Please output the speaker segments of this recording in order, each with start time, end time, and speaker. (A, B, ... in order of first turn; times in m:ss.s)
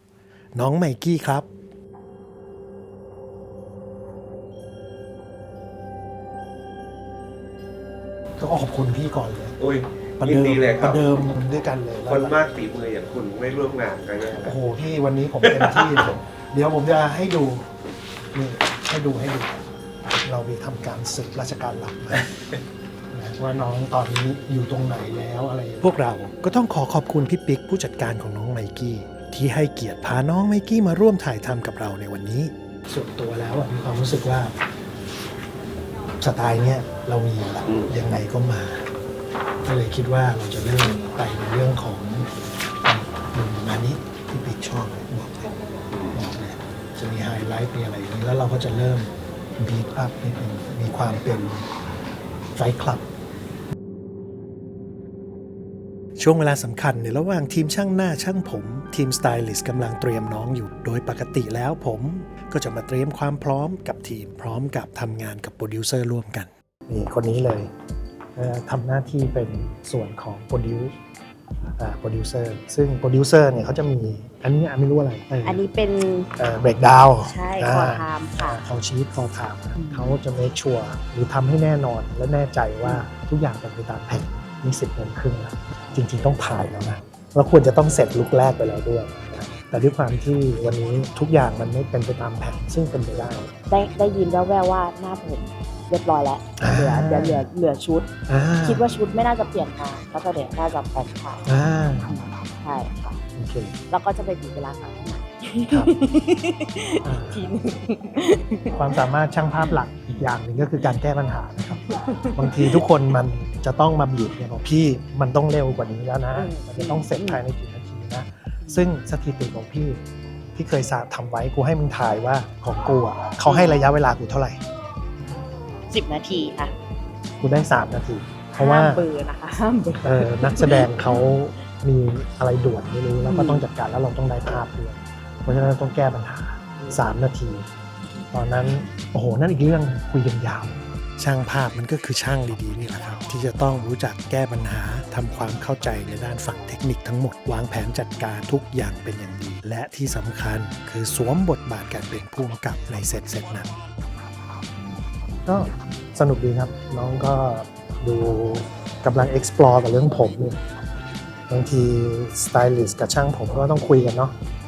0:00.5-0:01.5 A
0:08.4-0:09.6 A
0:09.6-0:11.2 B
0:10.2-0:12.5 A
0:12.0-0:14.6 B
0:14.3-0:17.6 A
0:15.4-0:16.0 B
0:18.3-0:19.7 A
0:20.2-0:22.3 A
0:23.1-0:34.5 A
0:36.2-0:38.8 A
0:39.6-0:42.3 A
0:42.8-0:45.5 A
0:46.1-0:51.7 A
0:52.6-0:53.0 A
0:56.2-1:07.7 A
1:08.4-1:10.9 A
1:11.8-1:15.6 A
1:15.4-1:16.4 C
1:16.4-1:33.5 A
1:17.2-1:18.6 C
1:19.8-1:20.2 C
1:33.7-1:41.4 C
1:36.6-1:37.5 A
1:38.3-1:38.9 A
1:41.4-1:42.1 A
1:42.1-1:43.2 C
1:43.4-1:43.8 A
1:43.9-1:49.0 C
1:45.7-1:46.0 A
1:47.0-1:47.5 A
1:48.7-2:00.0 A
1:51.9-1:52.8 C
1:56.3-1:57.4 C
1:58.6-1:58.9 C
2:00.5-2:04.6 A
2:03.4-2:03.8 C
2:05.9-2:06.7 C
2:07.4-2:09.0 A
2:08.5-2:11.2 C
2:10.0-2:17.6 A
2:13.2-2:13.6 C
2:18.3-2:33.7 A
2:35.4-2:40.6 A
2:41.5-2:44.3 A